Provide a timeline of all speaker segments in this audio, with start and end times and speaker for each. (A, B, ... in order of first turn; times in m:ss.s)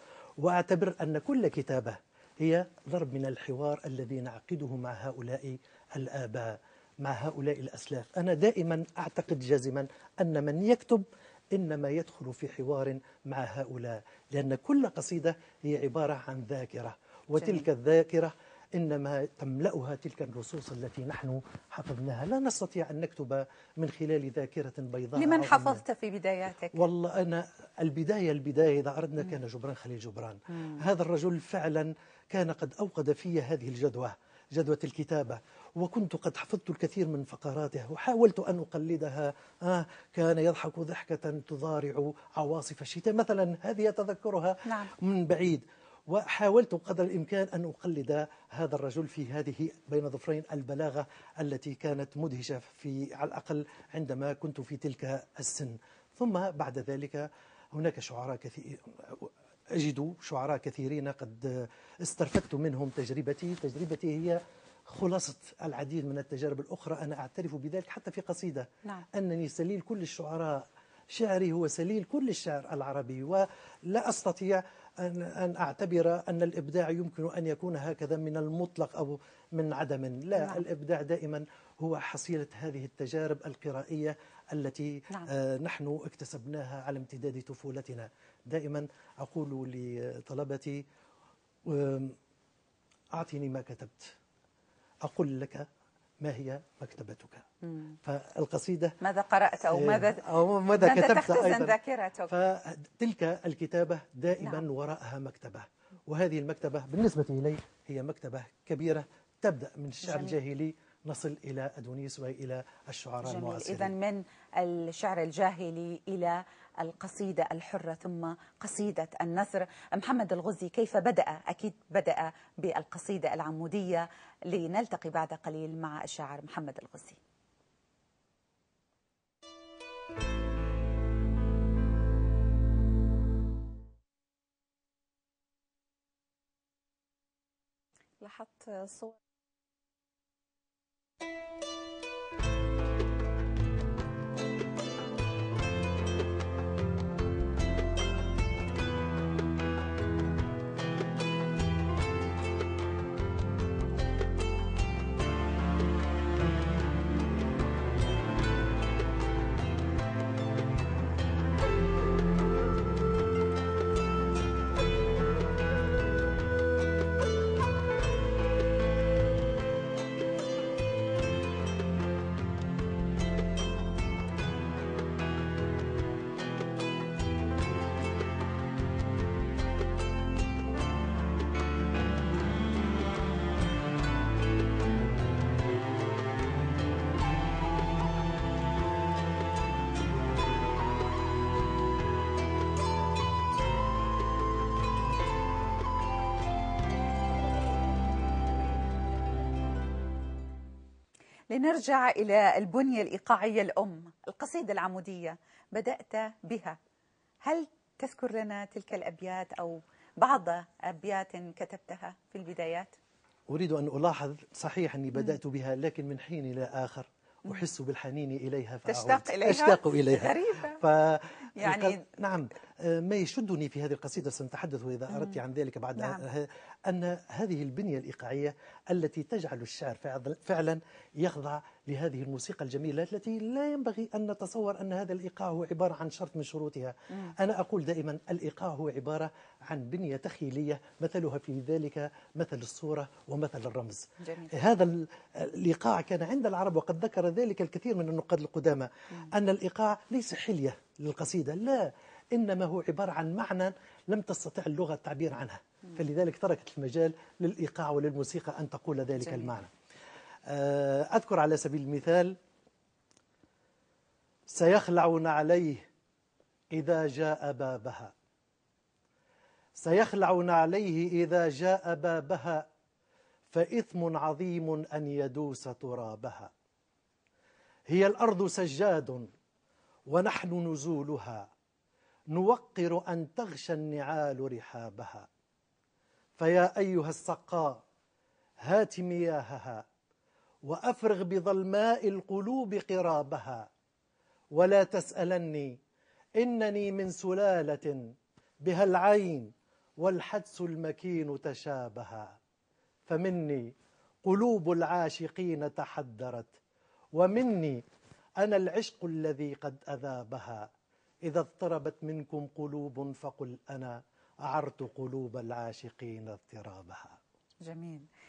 0:00.4-0:25.8 A
0:17.4-0:17.7 B
0:25.2-0:26.8 B
0:26.7-1:30.8 A
0:44.7-0:44.9 B
1:20.4-1:20.6 B
1:31.7-1:32.2 A
1:33.1-1:34.1 A
1:35.0-1:35.7 A
1:36.2-1:37.5 A
1:38.0-1:39.0 A
1:39.0-1:42.3 B
1:39.7-1:53.9 A
1:44.4-1:44.7 B
1:50.0-1:50.4 B
1:53.2-2:07.2 B
2:18.2-2:19.2 B
3:21.5-3:26.8 B
3:27.4-3:33.0 B
3:33.5-4:19.7 A
3:38.9-3:40.8 B
3:41.6-3:42.0 B
3:45.1-3:45.4 B
4:04.2-4:04.5 B
4:19.2-4:19.5 B
4:20.5-4:22.4 A
4:24.5-4:25.9 A
4:26.7-4:28.1 A
4:29.8-4:32.7 A
4:33.5-4:36.5 A
4:37.9-4:39.3 A
4:40.1-4:41.5 A
4:42.3-4:45.3 A
4:46.4-4:47.8 A
4:48.6-4:49.8 A
4:50.7-4:53.7 A
4:54.6-4:55.8 A
4:56.4-4:58.1 A
4:58.6-5:02.4 A
5:03.1-5:03.7 A
5:04.2-5:06.5 A
5:07.2-5:07.8 A
5:08.4-5:10.7 A
5:11.2-5:17.2 A
5:17.6-5:18.1 B